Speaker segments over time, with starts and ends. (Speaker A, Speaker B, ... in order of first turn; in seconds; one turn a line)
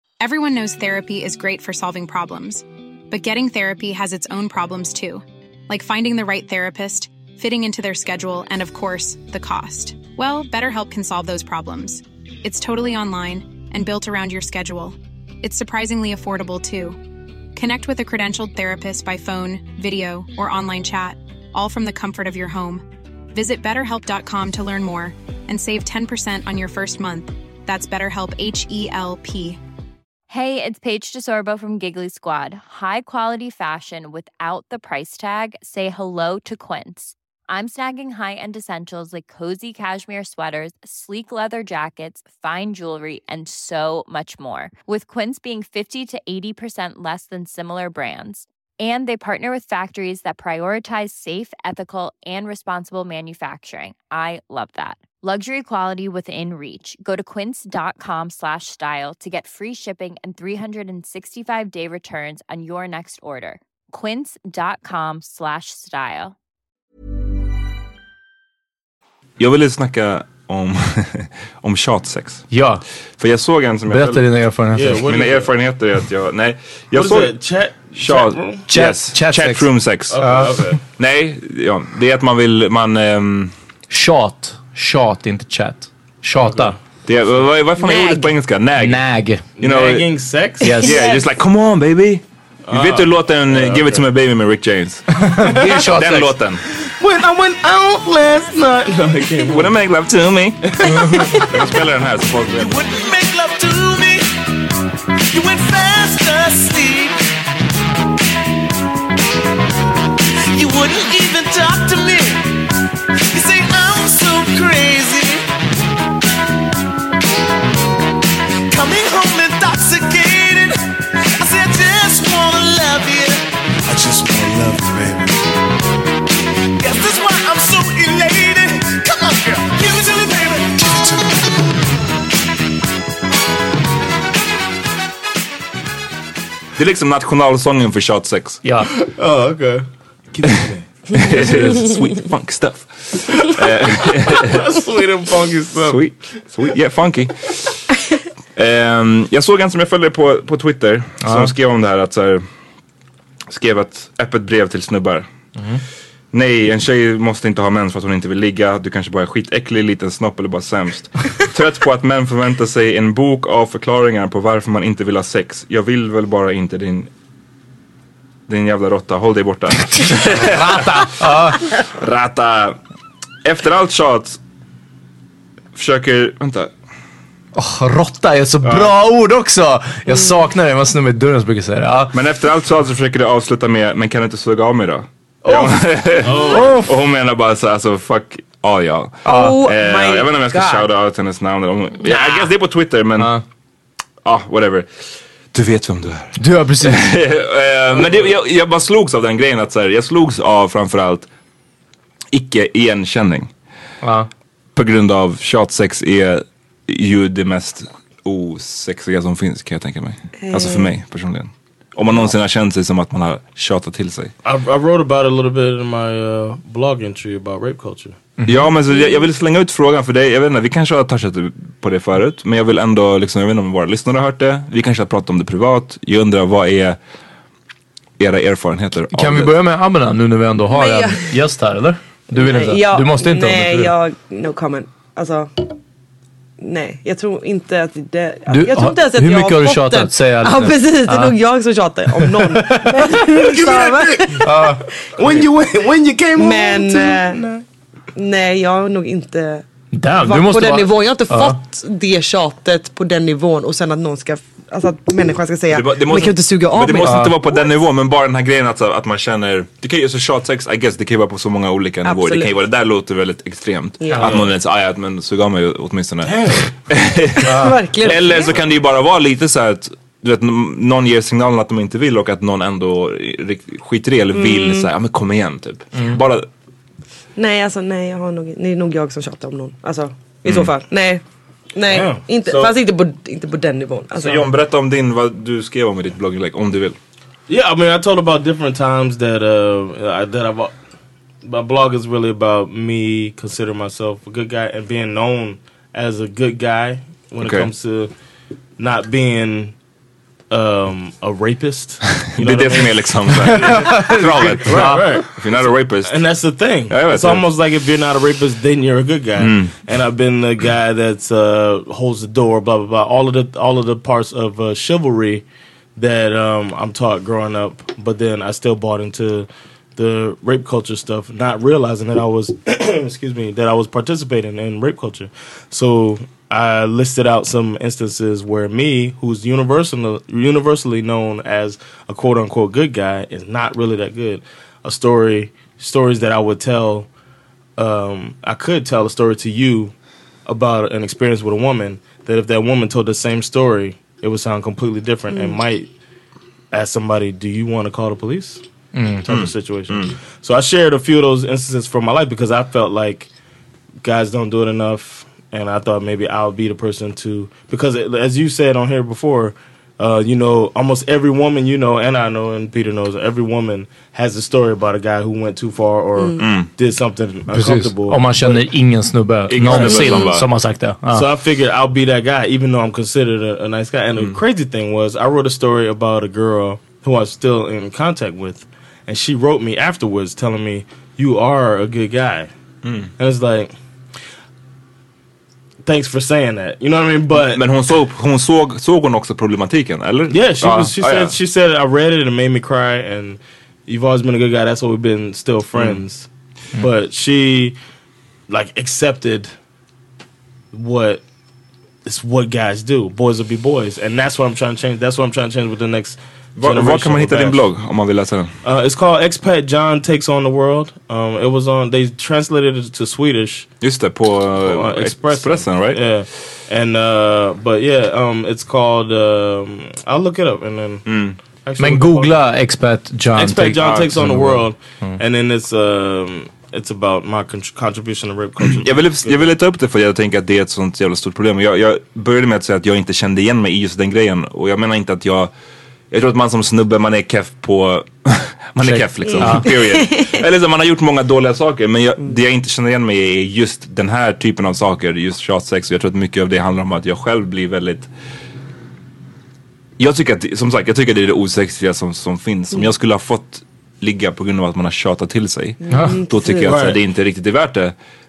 Speaker A: 0.2-17.0
Speaker A: 17.6-29.6
Speaker B: 30.3-66.3
Speaker C: 69.4-72.5
Speaker D: 72.5-72.8
Speaker C: 73.2-74.2
Speaker D: 73.9-75.0
Speaker E: 74.7-75.5
Speaker C: 75.0-77.3
Speaker E: 76.9-78.7
Speaker C: 77.9-83.5
Speaker D: 78.7-80.7
Speaker E: 80.1-80.8
Speaker D: 83.9-86.8
Speaker E: 86.4-86.8
Speaker C: 87.0-89.0
Speaker D: 88.8-89.5
Speaker E: 89.6-90.8
Speaker C: 89.6-90.1
Speaker D: 90.6-90.9
Speaker C: 90.7-95.2
Speaker E: 92.7-94.0
Speaker D: 95.2-96.3
Speaker C: 95.8-96.6
Speaker E: 96.9-99.7
Speaker C: 99.4-102.8
Speaker E: 100.6-101.4
Speaker F: 102.7-104.2
Speaker F: 105.3-107.2
Speaker E: 106.4-106.9
Speaker F: 110.5-112.4
Speaker E: 111.4-111.7
Speaker F: 113.3-115.3
Speaker E: 114.4-115.0
Speaker F: 118.7-120.7
Speaker F: 121.4-123.4
Speaker E: 122.2-123.1
Speaker F: 124.3-125.1
Speaker F: 126.8-130.8
Speaker E: 130.0-130.6
Speaker C: 136.8-138.6
Speaker D: 138.6-138.9
Speaker E: 138.9-140.9
Speaker C: 141.1-144.7
Speaker E: 144.3-146.0
Speaker C: 145.8-147.8
Speaker C: 148.6-152.4
Speaker D: 151.2-151.5
Speaker C: 153.5-155.3
Speaker C: 156.3-167.1
Speaker C: 168.5-172.8
Speaker D: 170.1-171.7
Speaker C: 173.4-174.4
Speaker C: 175.7-176.7
Speaker D: 177.5-182.2
Speaker C: 182.1-193.3
Speaker E: 185.4-186.8
Speaker D: 186.5-186.9
Speaker G: 189.2-190.9
Speaker D: 189.3-189.6
Speaker C: 194.2-194.9
Speaker C: 195.5-201.3
Speaker D: 196.4-197.1
Speaker C: 202.3-203.5
Speaker D: 204.0-204.3
Speaker C: 204.7-214.3
Speaker G: 210.4-210.9
Speaker E: 214.4-218.2
Speaker C: 218.4-227.0
Speaker C: 228.2-229.6
Speaker D: 229.1-233.9
Speaker G: 230.7-231.3
Speaker G: 232.3-235.6
Speaker G: 236.6-244.6
Speaker D: 238.5-241.3
Speaker D: 242.2-243.3
Speaker E: 243.0-244.4
Speaker D: 244.4-244.8
Speaker E: 245.2-247.6
Speaker G: 246.3-247.4
Speaker G: 248.2-249.6
Speaker D: 249.9-251.6
Speaker G: 250.2-257.4
Speaker C: 255.7-276.5
Speaker D: 257.1-257.3
Speaker G: 262.0-262.5
Speaker G: 264.0-264.3
Speaker E: 264.2-264.4
Speaker E: 266.2-266.7
Speaker D: 267.4-267.8
Speaker G: 267.4-268.4
Speaker G: 274.3-274.9
Speaker D: 275.9-276.2
Speaker G: 277.4-281.2
Speaker C: 280.4-280.7
Speaker G: 281.7-284.5
Speaker E: 281.9-282.2
Speaker C: 282.4-282.7
Speaker C: 284.2-287.0
Speaker E: 287.5-290.7
Speaker E: 291.4-298.1
Speaker C: 297.4-297.7
Speaker E: 298.8-299.7
Speaker E: 300.5-304.1
Speaker C: 302.1-306.2
Speaker D: 303.5-305.1
Speaker E: 304.6-315.4
Speaker C: 306.9-307.4
Speaker C: 309.4-309.7
Speaker E: 315.9-337.1
Speaker E: 337.8-339.9
Speaker E: 340.4-345.9
Speaker G: 345.3-345.6
Speaker E: 346.7-348.6
Speaker D: 348.9-349.2
Speaker E: 349.2-353.3
Speaker C: 349.2-350.1
Speaker E: 354.0-368.7
Speaker C: 366.4-366.7
Speaker D: 367.5-371.2
Speaker C: 369.5-370.5
Speaker E: 369.6-370.3
Speaker E: 371.1-382.5
Speaker C: 382.8-383.1
Speaker E: 383.2-383.7
Speaker E: 385.8-387.6
Speaker C: 387.3-391.4
Speaker E: 390.3-396.3
Speaker C: 395.7-396.0
Speaker E: 396.8-397.8
Speaker E: 398.5-399.5
Speaker E: 400.7-401.2
Speaker E: 402.0-407.6
Speaker C: 406.6-408.5
Speaker E: 408.6-413.7
Speaker C: 413.8-416.0
Speaker E: 414.6-421.0
Speaker C: 421.1-421.4
Speaker E: 421.6-422.3
Speaker D: 421.8-425.2
Speaker E: 423.3-429.5
Speaker C: 423.8-424.1
Speaker C: 428.6-435.5
Speaker C: 436.1-448.1
Speaker D: 438.8-439.7
Speaker C: 450.0-457.9
Speaker G: 455.9-456.7
Speaker D: 455.9-456.2
Speaker E: 456.6-457.0